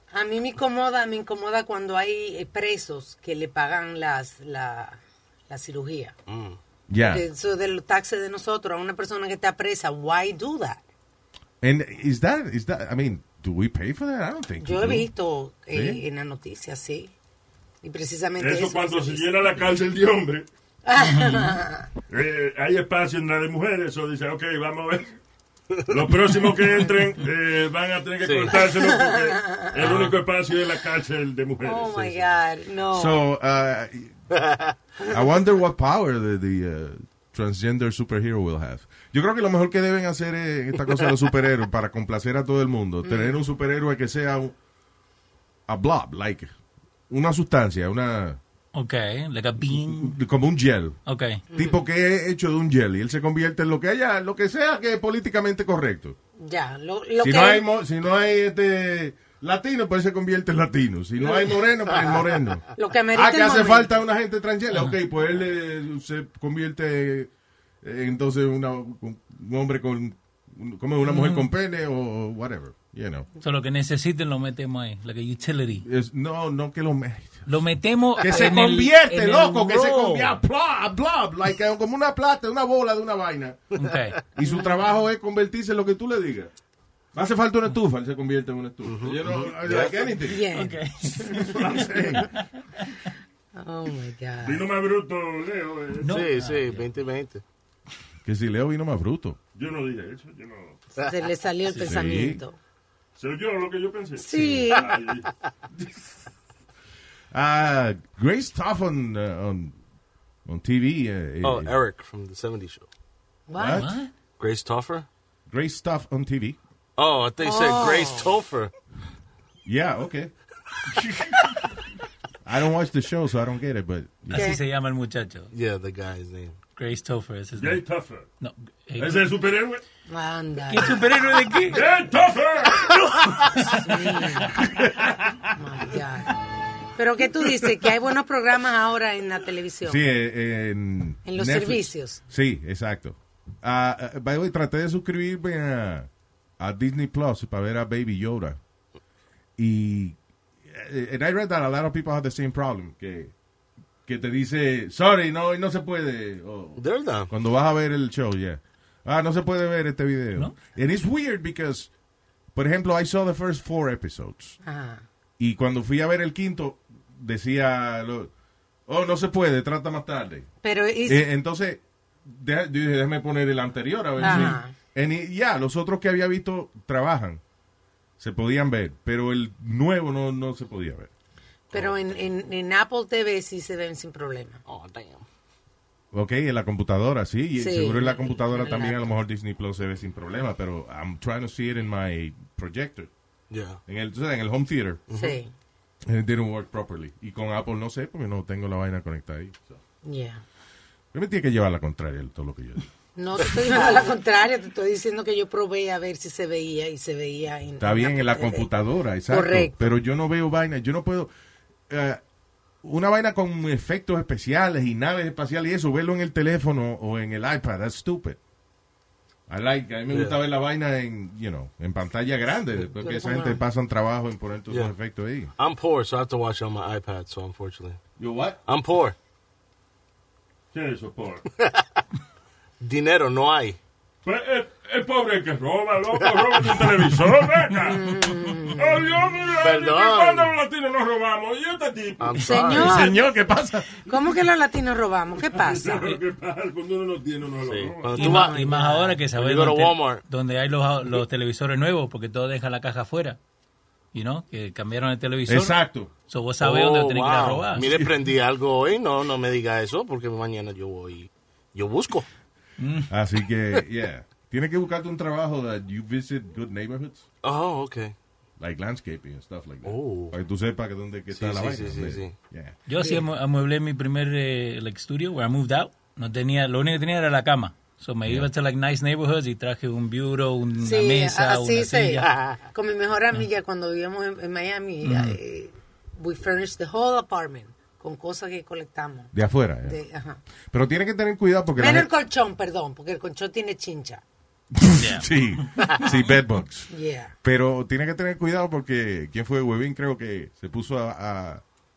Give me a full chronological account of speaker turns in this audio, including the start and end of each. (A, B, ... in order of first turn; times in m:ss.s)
0:00.1-0:06.1 A
0:06.3-0:06.6 B
0:06.9-0:07.2 C
0:07.1-0:10.8 A
0:11.6-0:15.1 C
0:14.6-0:17.1 A
0:15.7-0:16.0 C
0:17.8-0:19.3 A
0:18.4-0:20.4 D
0:20.8-0:21.9 A
0:21.0-0:21.6 E
0:22.1-0:25.2 D
0:25.7-0:26.2 B
0:25.9-0:32.3 D
0:28.2-0:28.6 B
0:28.5-0:29.7 A
0:29.8-0:30.1 B
0:31.6-0:33.2 A
0:32.9-0:34.2 C
0:34.4-0:34.7 B
0:35.1-0:44.5 C
0:43.0-0:43.3 A
0:45.7-0:46.5 C
0:47.1-0:48.4 C
0:48.7-0:50.2 E
0:49.6-0:51.0 C
0:51.0-0:51.4 E
0:51.5-0:51.8 A
0:51.5-0:56.2 C
0:56.4-0:57.6 A
0:57.2-1:07.3 C
1:02.8-1:03.9 A
1:07.8-1:13.3 C
1:11.0-1:11.5 E
1:13.4-1:15.8 E
1:15.8-1:17.5 C
1:17.5-1:20.4 E
1:18.2-1:23.6 C
1:23.8-1:24.2 E
1:24.4-1:26.5 C
1:24.4-1:24.8 A
1:27.1-1:30.4 C
1:28.8-1:30.1 B
1:30.2-1:31.7 A
1:30.5-1:31.7 E
1:31.5-1:32.3 C
1:32.2-1:32.8 E
1:33.5-1:34.6 A
1:34.4-1:36.1 D
1:36.0-1:36.9 E
1:36.1-1:37.4 B
1:38.2-1:39.4 C
1:39.5-1:40.8 D
1:41.0-1:42.6 A
1:41.7-1:42.4 C
1:43.2-1:45.3 D
1:44.2-1:44.9 A
1:47.3-1:49.7 C
1:50.4-1:51.7 C
1:51.4-1:52.9 B
1:53.5-1:53.8 A
1:53.5-1:54.0 C
1:53.7-1:54.1 E
1:54.4-1:55.1 B
1:55.5-1:56.6 C
1:57.0-1:58.7 B
1:57.4-1:58.3 A
1:59.6-2:00.3 C
2:02.4-2:04.5 C
2:04.3-2:05.5 E
2:04.3-2:04.6 A
2:05.5-2:06.6 B
2:06.8-2:07.8 E
2:07.5-2:08.3 D
2:08.4-2:09.3 E
2:09.0-2:09.8 D
2:10.1-2:11.0 A
2:10.7-2:11.8 E
2:11.7-2:12.9 D
2:12.9-2:13.8 E
2:13.6-2:14.6 A
2:15.5-2:16.3 A
2:17.0-2:20.0 A
2:19.8-2:28.6 C
2:21.2-2:22.2 A
2:29.6-2:33.3 C
2:34.0-2:41.9 C
2:36.8-2:37.3 B
2:42.5-2:44.6 C
2:44.6-2:45.0 A
2:45.4-2:48.3 C
2:48.9-2:50.5 C
2:50.6-2:51.2 A
2:51.0-2:57.4 C
2:54.2-2:54.7 A
2:58.2-3:01.1 C
3:01.7-3:04.6 A
3:04.6-3:05.2 B
3:06.1-3:13.1 C
3:07.6-3:09.2 A
3:13.5-3:13.8 B
3:13.8-3:15.0 C
3:15.1-3:15.4 B
3:15.1-3:15.5 A
3:16.0-3:19.8 C
3:20.0-3:20.4 A
3:21.1-3:22.8 C
3:23.2-3:28.7 A
3:27.8-3:31.3 C
3:29.3-3:30.0 A
3:31.9-3:32.2 C
3:32.8-3:38.4 C
3:39.5-3:45.5 C
3:40.1-3:40.4 B
3:42.8-3:43.6 A
3:45.6-3:48.0 B
3:48.2-3:48.6 C
3:48.6-3:49.2 B
3:50.7-3:51.4 D
3:51.6-3:51.8 B
3:52.8-3:53.8 B
3:54.2-3:58.1 D
3:56.2-3:57.0 B
3:57.8-3:59.0 A
3:58.7-4:02.8 D
3:59.6-4:00.5 B
4:02.2-4:03.1 B
4:02.4-4:03.3 A
4:02.7-4:04.0 C
4:04.0-4:06.2 A
4:05.5-4:08.2 D
4:07.6-4:08.6 B
4:08.1-4:13.4 E
4:08.2-4:09.2 A
4:09.3-4:10.2 B
4:14.1-4:18.0 E
4:15.5-4:16.1 C
4:16.6-4:22.3 B
4:17.8-4:18.1 C
4:22.8-4:23.1 E
4:23.1-4:27.2 C
4:27.4-4:28.1 B
4:28.6-4:32.8 C
4:29.8-4:30.3 B
4:31.3-4:32.3 B
4:32.9-4:42.3 E
4:33.0-4:33.2 A
4:38.2-4:38.5 C
4:40.8-4:49.3 A
4:42.2-4:42.6 B
4:45.0-4:45.4 E
4:49.3-4:50.0 C
4:49.8-4:50.4 A
4:50.7-4:52.1 C
4:51.8-4:54.2 A
4:54.7-4:56.9 C
4:55.0-4:55.9 E
4:56.9-4:57.3 A
4:57.4-5:01.6 C